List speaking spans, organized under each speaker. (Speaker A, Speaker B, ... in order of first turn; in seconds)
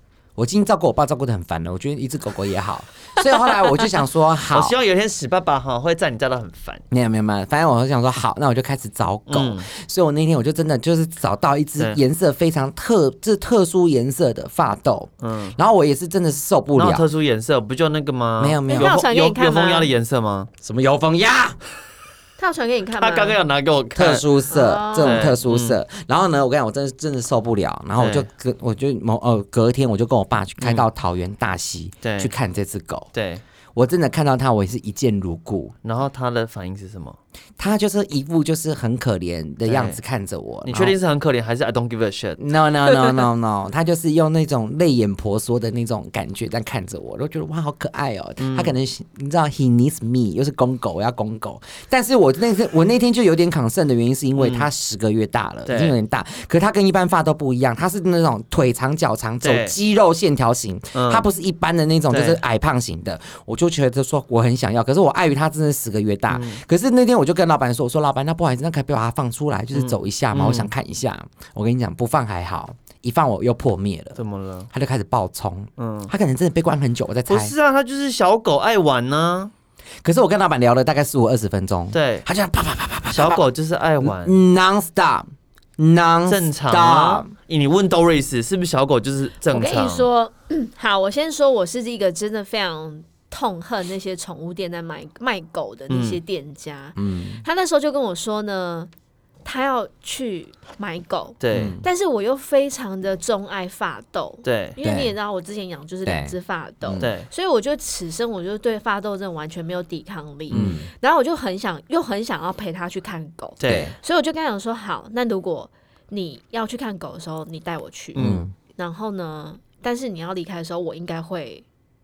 Speaker A: 0.4-4.7, 6.9-17.0, 18.4-19.1, 20.6-21.6, 23.9-33.1, 33.7-35.7, 37.6-41.0, 42.4-74.2, 74.7-77.5, 80.0-83.4, 84.0-85.3, 85.8-87.3, 97.0-97.4, 101.5-101.8, 104.8-105.1, 106.0-107.1, 110.5-110.9, 113.6-113.9, 118.2-118.5
Speaker B: 4.5-6.8, 9.3-9.7, 15.2-15.6, 16.7-20.5, 23.0-24.3, 25.0-25.8, 28.0-28.3, 30.6-30.8, 32.0-32.3, 33.1-33.4, 35.8-37.2, 39.6-40.0, 40.6-42.4, 48.4-48.7, 54.4-54.7, 55.6-55.9, 59.4-59.7, 60.9-61.2, 62.1-62.4, 66.3-66.6, 69.7-70.7, 74.2-74.7, 75.8-76.1, 77.3-79.5, 81.9-82.2, 83.1-84.3, 86.3-90.0, 95.9-96.2, 101.4-101.8, 104.4-104.8, 107.0-107.3, 110.5-110.8, 113.6-113.9, 118.2-118.4
Speaker C: 18.7-19.9, 22.4-23.4, 24.5-25.3, 89.5-98.9, 99.4-121.6